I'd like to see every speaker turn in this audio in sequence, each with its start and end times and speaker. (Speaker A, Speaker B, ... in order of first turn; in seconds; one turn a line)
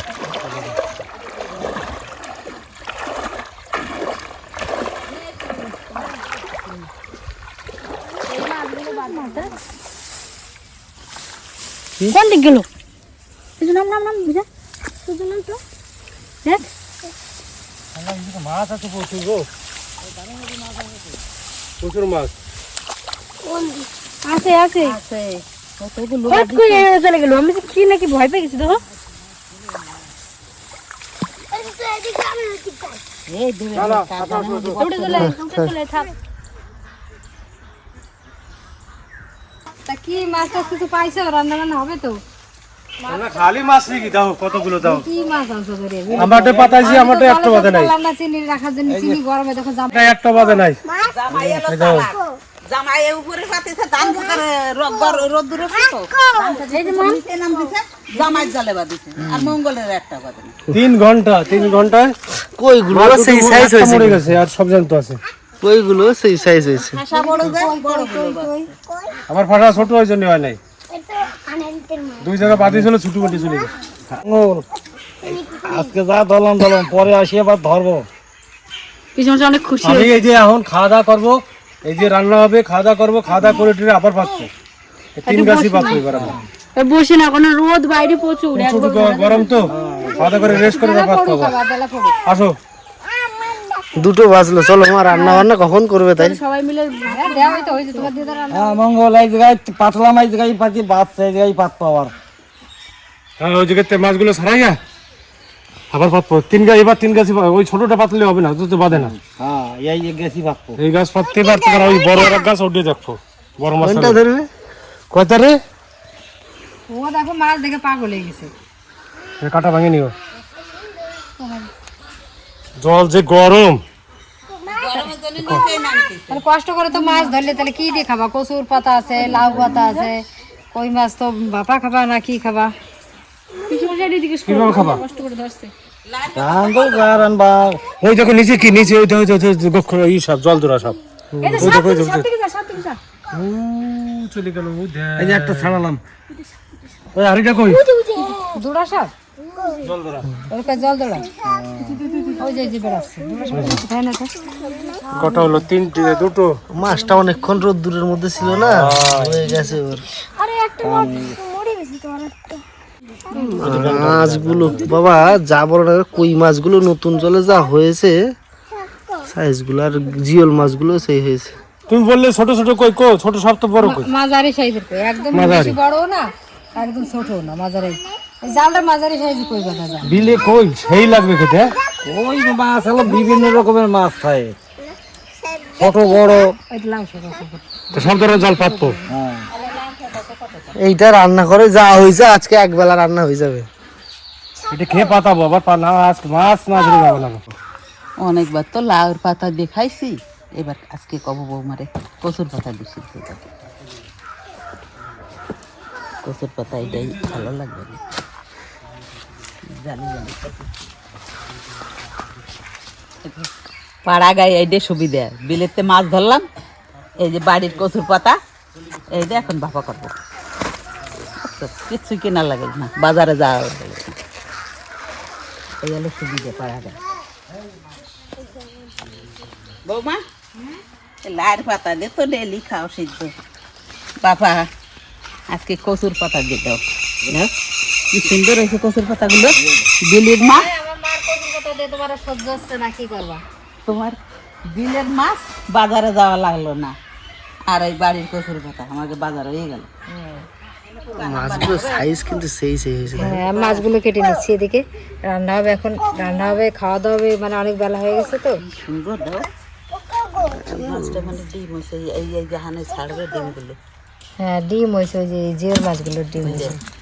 Speaker A: 0.3-0.7
Speaker B: 8.3-9.5
Speaker B: 12.1-12.7
Speaker B: 13.6-14.5
Speaker B: 15.0-15.6
Speaker C: 18.0-19.5
Speaker A: 20.0-21.2
Speaker C: 21.8-22.3
Speaker D: 23.4-23.9
Speaker B: 24.3-25.0
Speaker E: 24.8-26.9
Speaker B: 26.3-28.8
Speaker D: 31.5-33.0
Speaker E: 33.3-35.4
Speaker C: 33.7-34.8
Speaker B: 34.8-36.1
Speaker F: 35.2-35.7
Speaker G: 39.9-42.2
Speaker C: 43.0-45.1
Speaker D: 43.4-43.7
Speaker G: 44.8-50.2
Speaker A: 46.1-47.1
Speaker C: 46.2-47.9
Speaker A: 48.9-49.2
Speaker C: 49.9-50.8
Speaker D: 50.3-51.2
Speaker E: 51.1-60.6
Speaker A: 51.3-51.6
Speaker C: 51.6-52.1
Speaker D: 52.0-52.4
Speaker D: 54.0-56.7
Speaker B: 56.7-57.2
Speaker C: 60.7-62.1
Speaker D: 61.5-61.9
Speaker F: 62.5-64.2
Speaker C: 62.9-65.2
Speaker F: 65.6-67.0
Speaker E: 67.0-68.7
Speaker G: 67.0-68.7
Speaker D: 68.9-69.2
Speaker C: 69.3-70.6
Speaker D: 70.9-72.4
Speaker C: 72.2-73.7
Speaker A: 72.5-72.9
Speaker D: 73.2-73.7
Speaker A: 74.1-74.6
Speaker D: 75.2-76.0
Speaker A: 75.3-78.1
Speaker B: 79.2-80.1
Speaker C: 79.8-84.5
Speaker D: 83.4-83.7
Speaker C: 85.2-86.4
Speaker B: 85.3-86.0
Speaker A: 86.0-86.5
Speaker B: 86.8-89.7
Speaker C: 88.5-91.6
Speaker A: 89.7-90.8
Speaker G: 90.1-92.2
Speaker C: 92.2-92.6
Speaker D: 93.1-94.5
Speaker F: 94.0-96.4
Speaker B: 95.1-95.5
Speaker B: 96.2-98.1
Speaker G: 97.1-98.8
Speaker A: 98.5-102.1
Speaker C: 103.4-104.8
Speaker C: 105.9-109.2
Speaker A: 108.9-110.8
Speaker C: 110.8-114.2
Speaker D: 111.2-112.5
Speaker F: 113.8-114.5
Speaker C: 115.1-115.6
Speaker G: 116.9-118.5
Speaker C: 119.4-120.2
Speaker B: 121.4-121.7
Speaker C: 122.8-123.8
Speaker D: 124.6-125.9
Speaker E: 124.7-126.5
Speaker G: 126.3-132.7
Speaker B: 126.9-127.4
Speaker A: 129.4-129.7
Speaker B: 129.6-130.1
Speaker B: 133.7-135.7
Speaker C: 134.4-135.0
Speaker E: 136.1-137.3
Speaker A: 136.3-137.8
Speaker C: 138.0-142.3
Speaker B: 141.4-143.0
Speaker G: 141.5-142.0
Speaker G: 142.7-142.9
Speaker A: 143.3-144.2
Speaker C: 144.1-145.8
Speaker A: 145.2-146.0
Speaker C: 147.1-147.8
Speaker B: 147.7-148.4
Speaker G: 148.6-149.1
Speaker D: 149.4-149.9
Speaker C: 149.8-150.3
Speaker G: 150.5-151.3
Speaker A: 151.4-152.0
Speaker B: 151.8-152.5
Speaker D: 152.1-153.8
Speaker G: 152.4-154.4
Speaker C: 153.5-153.8
Speaker D: 154.4-155.2
Speaker G: 155.2-155.7
Speaker C: 155.2-156.6
Speaker F: 156.7-160.1
Speaker C: 158.6-159.4
Speaker A: 158.7-159.2
Speaker D: 160.8-162.5
Speaker A: 160.8-161.4
Speaker D: 163.3-163.7
Speaker F: 163.4-168.2
Speaker A: 163.6-165.0
Speaker D: 168.7-169.3
Speaker F: 169.3-171.5
Speaker C: 171.9-174.1
Speaker G: 173.8-180.1
Speaker C: 175.3-175.8
Speaker D: 177.0-177.3
Speaker D: 179.3-180.1
Speaker C: 180.0-181.8
Speaker A: 180.1-180.5
Speaker D: 180.8-181.6
Speaker A: 182.1-184.6
Speaker D: 182.5-183.7
Speaker D: 184.8-186.5
Speaker A: 185.8-186.6
Speaker G: 186.7-189.0
Speaker C: 187.9-189.0
Speaker A: 189.1-189.5
Speaker E: 189.5-190.8
Speaker F: 190.8-193.7
Speaker C: 194.7-197.5
Speaker D: 194.7-195.2
Speaker D: 196.9-197.2
Speaker E: 198.2-203.5
Speaker E: 206.2-208.0
Speaker C: 206.8-207.4
Speaker E: 209.7-210.5
Speaker E: 213.2-213.5
Speaker E: 214.1-216.5
Speaker E: 217.2-218.4
Speaker E: 219.1-220.1
Speaker E: 221.4-224.2
Speaker E: 225.8-227.0
Speaker E: 229.9-230.2
Speaker E: 231.2-233.3
Speaker E: 234.2-234.7
Speaker E: 235.5-237.5
Speaker E: 238.1-240.7
Speaker A: 239.6-239.9
Speaker G: 240.4-243.4
Speaker E: 243.9-244.2
Speaker E: 244.7-246.9
Speaker E: 247.7-249.9
Speaker G: 250.1-250.5
Speaker E: 250.9-252.1
Speaker F: 251.2-253.4
Speaker G: 253.2-258.6
Speaker E: 253.3-253.9
Speaker D: 254.2-254.4
Speaker D: 256.0-256.6
Speaker E: 258.6-259.5
Speaker D: 259.9-261.2
Speaker E: 260.7-263.8
Speaker F: 260.9-261.3
Speaker D: 262.9-263.5
Speaker G: 264.4-266.8
Speaker E: 266.4-266.8